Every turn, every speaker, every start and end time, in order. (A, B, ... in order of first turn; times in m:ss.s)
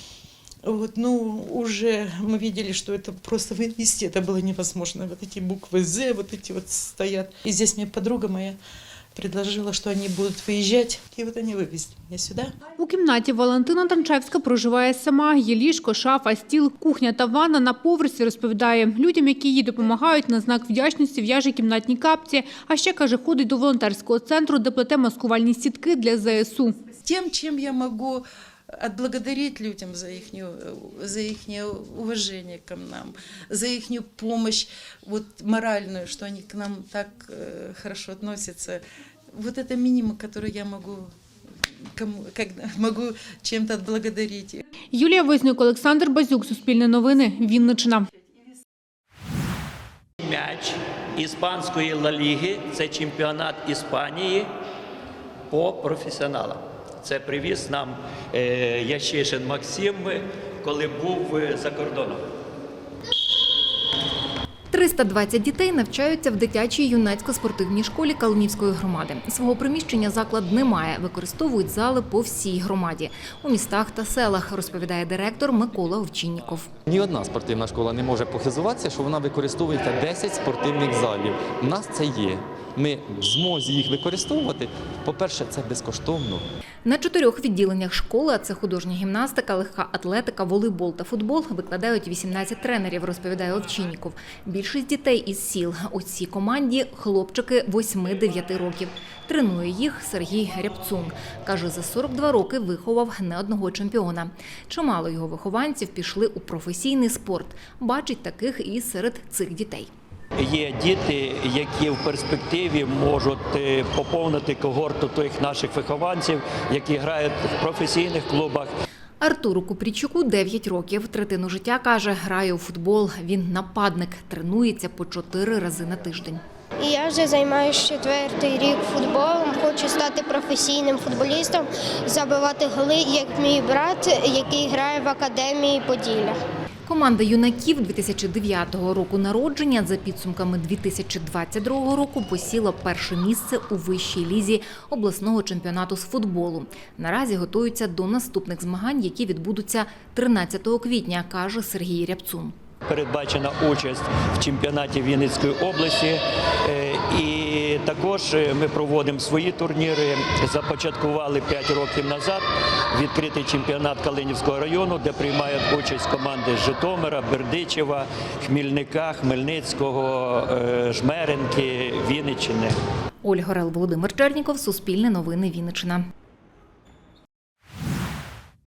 0:00.6-0:08.6 A
0:09.2-0:12.6 A
0:12.8-0:26.8 B
0:27.0-0:41.1 A
0:41.9-0:44.6 A
0:44.9-0:48.1 B
0:50.2-0:54.5 C
0:55.5-1:02.2 C
1:04.7-1:16.7 D
1:16.9-1:26.4 E
1:26.8-1:49.9 D
1:50.4-1:58.7 C
1:59.2-2:06.4 D
2:06.8-2:16.4 F
2:16.9-2:32.5 D
2:32.9-2:52.8 C
2:53.2-2:56.1 D